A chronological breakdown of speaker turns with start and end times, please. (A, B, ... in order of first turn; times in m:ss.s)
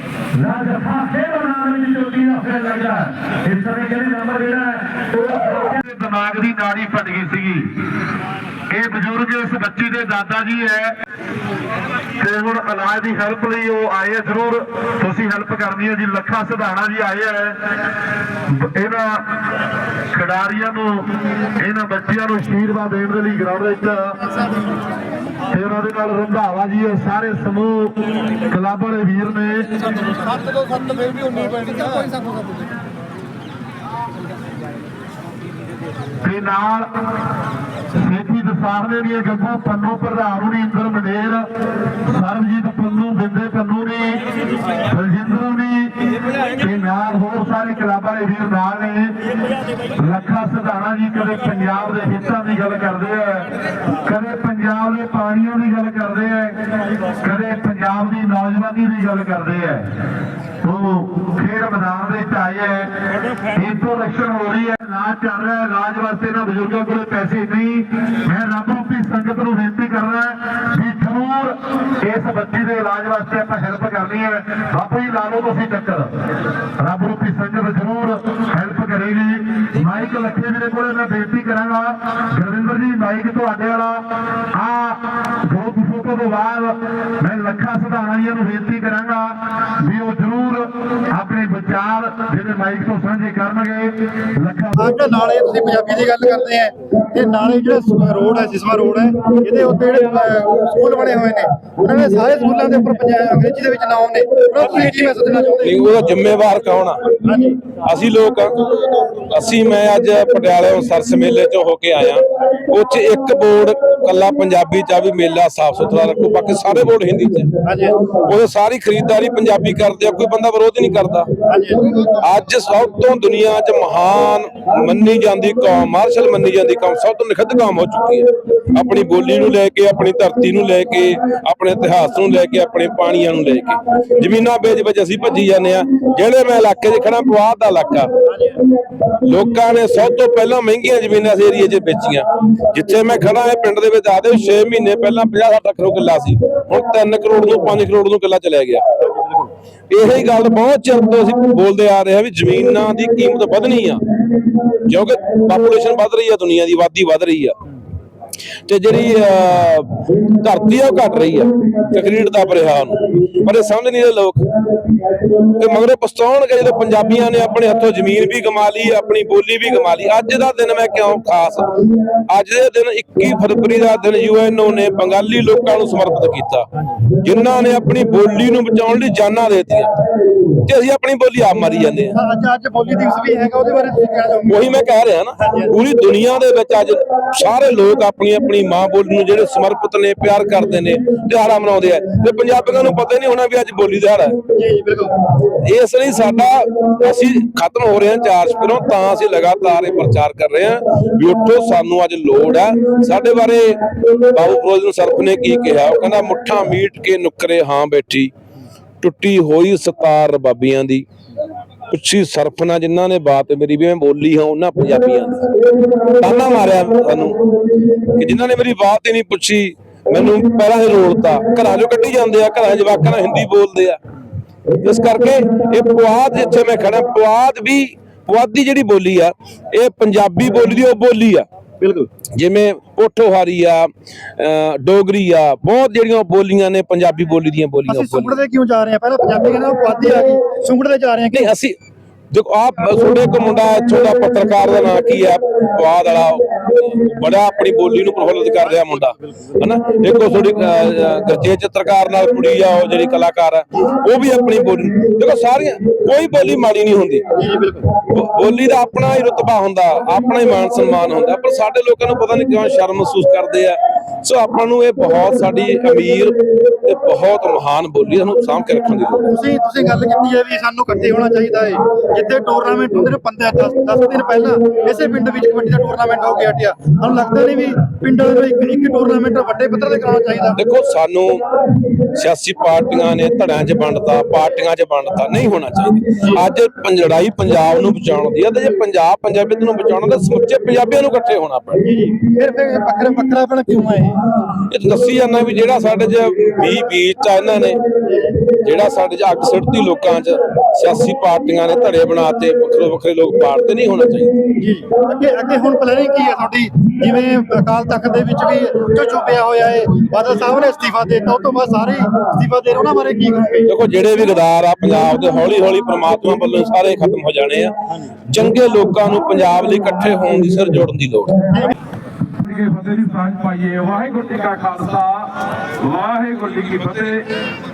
0:00.4-0:05.2 A
0:05.4-0:07.7 B
0:08.7-0:11.0 B
0:12.2-0:17.6 B
0:18.5-0:19.2 B
0:20.1-0:24.2 B
0:25.5-0:28.0 B
0:28.5-0:29.7 B
0:30.1-0:32.4 C
0:36.2-0:36.9 B
0:37.9-0:41.5 B
0:42.0-0:44.2 B
0:44.8-0:49.2 B
0:50.0-0:56.6 B
0:57.2-0:59.9 B
1:00.6-1:02.9 B
1:03.5-1:16.1 B
1:16.8-1:34.9 B
1:34.7-1:45.8 C
1:45.6-1:47.1 D
1:47.2-1:47.6 C
1:47.8-1:48.6 D
1:49.3-1:57.5 D
1:57.6-1:58.1 C
1:58.2-2:01.3 D
2:01.5-2:01.9 C
2:02.2-2:18.1 D
2:18.3-2:18.6 C
2:19.2-2:34.0 D
2:34.8-2:37.5 D
2:38.6-2:44.4 D
2:45.6-2:51.7 D
2:52.3-2:56.6 D
2:57.2-2:59.9 D
3:00.6-3:02.2 D
3:02.1-3:04.7 C
3:04.4-3:14.4 D
3:05.4-3:05.7 C
3:14.5-3:15.1 C
3:15.6-3:28.3 D
3:29.0-3:31.0 D
3:31.9-3:37.4 D
3:38.1-3:44.0 D
3:44.8-3:51.4 D
3:51.8-3:52.1 C
3:52.3-3:58.4 D
3:57.9-4:01.5 C
4:01.3-4:01.8 D
4:02.3-4:17.2 D
4:17.4-4:17.9 C
4:18.1-4:29.3 D
4:29.3-4:40.6 C
4:40.6-4:41.4 D
4:42.1-4:51.8 D
4:51.8-4:54.3 C
4:54.7-4:57.8 D
4:58.0-4:58.3 C
4:58.5-5:04.3 D
5:04.6-5:13.7 C
5:13.6-5:17.7 D
5:18.3-5:21.3 D
5:21.4-5:21.7 C
5:22.4-5:25.2 E
5:25.8-5:27.2 D